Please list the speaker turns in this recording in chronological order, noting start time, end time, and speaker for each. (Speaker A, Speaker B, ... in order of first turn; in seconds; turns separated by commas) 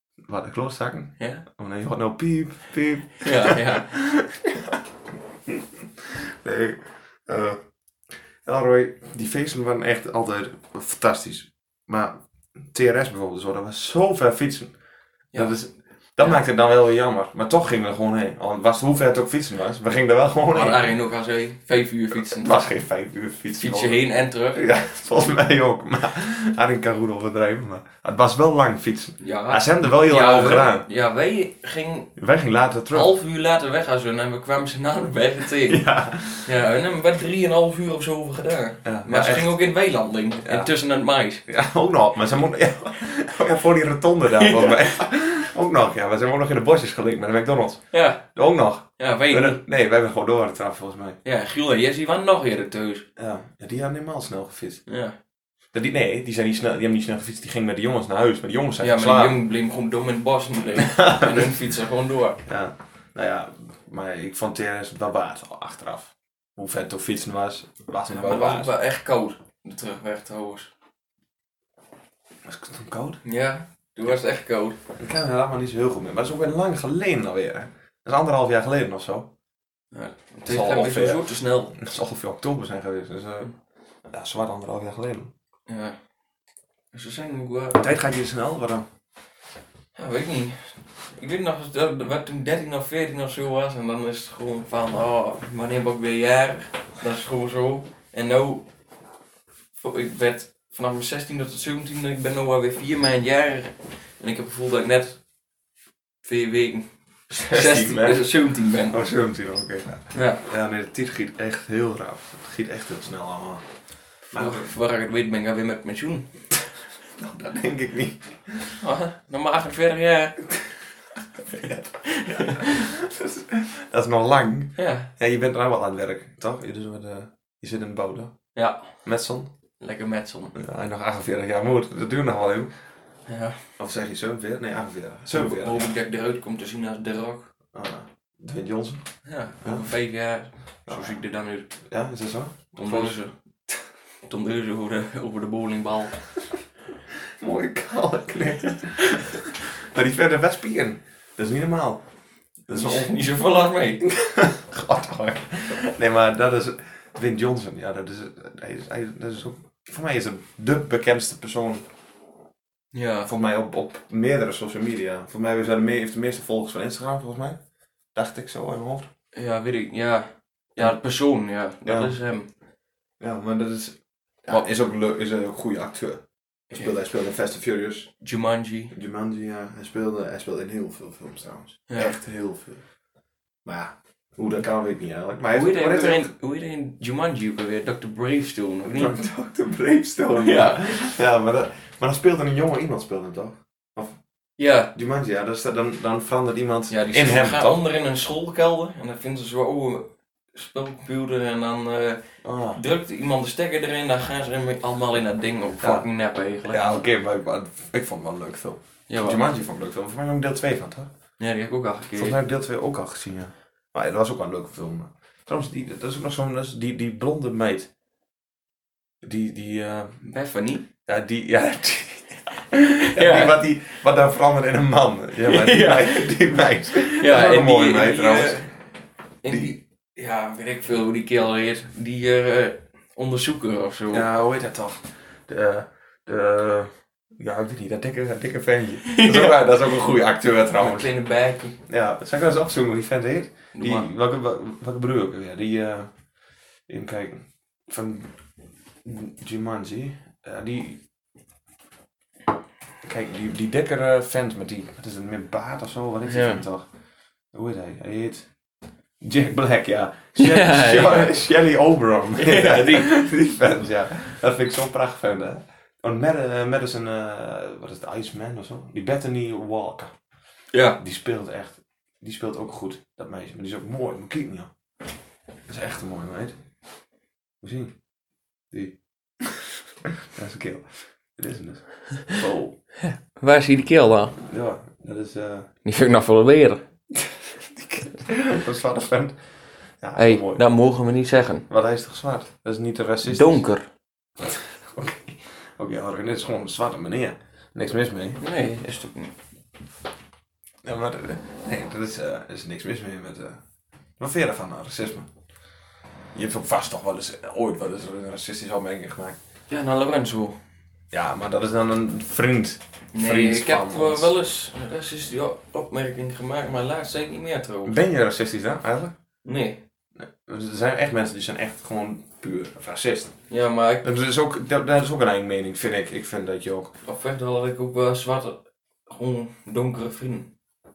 Speaker A: 0.2-4.8, Speaker B: 1.2-1.4, Speaker B: 3.2-3.9, Speaker A: 5.5-7.6, Speaker A: 8.4-14.8, Speaker A: 15.3-20.9, Speaker B: 20.5-22.6, Speaker A: 22.1-30.8, Speaker B: 23.6-24.6, Speaker B: 29.2-32.1, Speaker A: 32.2-33.1, Speaker B: 32.9-35.8, Speaker A: 35.6-36.5, Speaker B: 36.4-41.4, Speaker A: 38.8-39.5, Speaker A: 40.4-40.7, Speaker A: 41.5-51.2, Speaker B: 44.4-45.0, Speaker B: 47.9-48.2, Speaker B: 49.0-49.6, Speaker B: 51.2-53.0, Speaker A: 53.2-54.8, Speaker B: 54.9-55.1, Speaker A: 55.7-59.4, Speaker B: 58.8-62.4, Speaker A: 60.9-61.5, Speaker A: 62.5-68.7, Speaker B: 68.1-70.7, Speaker A: 72.4-73.2, Speaker B: 73.2-74.8, Speaker A: 75.0-79.3, Speaker B: 79.9-81.7, Speaker A: 80.5-83.5, Speaker A: 84.1-85.3, Speaker B: 85.7-86.0, Speaker B: 86.9-87.8, Speaker A: 87.8-88.8, Speaker B: 89.9-98.7, Speaker B: 99.8-105.2, Speaker B: 106.2-109.0, Speaker A: 107.3-113.6, Speaker B: 110.1-110.4, Speaker A: 114.2-114.7, Speaker B: 114.3-116.3, Speaker A: 117.2-118.8, Speaker B: 118.8-120.5, Speaker A: 121.5-128.4, Speaker B: 122.0-122.8, Speaker B: 124.8-125.1, Speaker B: 128.5-129.0, Speaker A: 129.0-129.5, Speaker B: 129.8-130.5, Speaker A: 130.5-132.7, Speaker B: 133.3-133.6, Speaker A: 133.8-135.9, Speaker B: 135.3-137.4, Speaker A: 137.7-139.1, Speaker B: 139.2-141.7, Speaker A: 139.6-139.9, Speaker A: 140.9-141.2, Speaker A: 141.9-143.2, Speaker B: 142.8-143.3, Speaker B: 144.3-146.3, Speaker A: 147.4-152.0, Speaker A: 152.7-153.1, Speaker B: 152.7-154.0, Speaker A: 154.0-161.8, Speaker B: 162.9-163.3, Speaker A: 163.2-167.6, Speaker A: 168.1-169.1, Speaker B: 169.3-172.5, Speaker A: 171.8-172.1, Speaker A: 173.2-178.1, Speaker B: 178.2-178.9, Speaker A: 178.9-182.8, Speaker B: 181.9-182.2, Speaker A: 183.6-186.3, Speaker B: 185.5-189.2, Speaker A: 188.8-194.2, Speaker B: 190.3-190.8, Speaker B: 194.6-194.9, Speaker A: 194.9-197.8, Speaker B: 196.9-207.0, Speaker A: 202.4-202.8, Speaker A: 205.8-206.1, Speaker A: 206.7-211.1, Speaker B: 209.1-209.4, Speaker B: 211.4-212.4, Speaker A: 212.2-217.9, Speaker A: 219.2-220.2, Speaker B: 220.2-220.9, Speaker A: 221.0-228.7, Speaker B: 223.0-223.6, Speaker B: 225.4-226.3, Speaker B: 227.0-228.7, Speaker B: 229.4-234.3, Speaker A: 229.5-229.7, Speaker A: 234.1-241.1, Speaker B: 239.1-239.9, Speaker B: 240.8-241.8, Speaker A: 241.8-246.2, Speaker B: 243.7-244.1, Speaker A: 246.9-248.3, Speaker A: 249.0-251.0, Speaker A: 253.0-258.6, Speaker B: 256.3-256.6, Speaker A: 259.2-270.1, Speaker B: 260.4-261.4, Speaker B: 262.4-263.2, Speaker B: 270.7-271.0, Speaker A: 271.0-274.7, Speaker A: 275.7-276.6, Speaker A: 277.6-278.0, Speaker A: 278.7-279.6, Speaker A: 280.3-282.8, Speaker B: 283.0-284.4, Speaker A: 284.4-285.7, Speaker B: 285.8-286.8, Speaker A: 287.2-289.4, Speaker A: 290.0-290.6, Speaker B: 290.1-291.7, Speaker A: 291.7-293.6, Speaker B: 293.2-293.9, Speaker A: 294.4-298.4, Speaker B: 298.4-299.3, Speaker A: 300.8-303.6, Speaker A: 304.2-305.3, Speaker A: 306.3-309.4, Speaker B: 309.7-310.6, Speaker A: 311.1-314.3, Speaker B: 313.1-317.9, Speaker A: 317.8-319.1, Speaker B: 319.4-319.8, Speaker A: 320.2-323.4, Speaker B: 323.5-324.0, Speaker A: 324.0-326.9, Speaker B: 327.0-330.5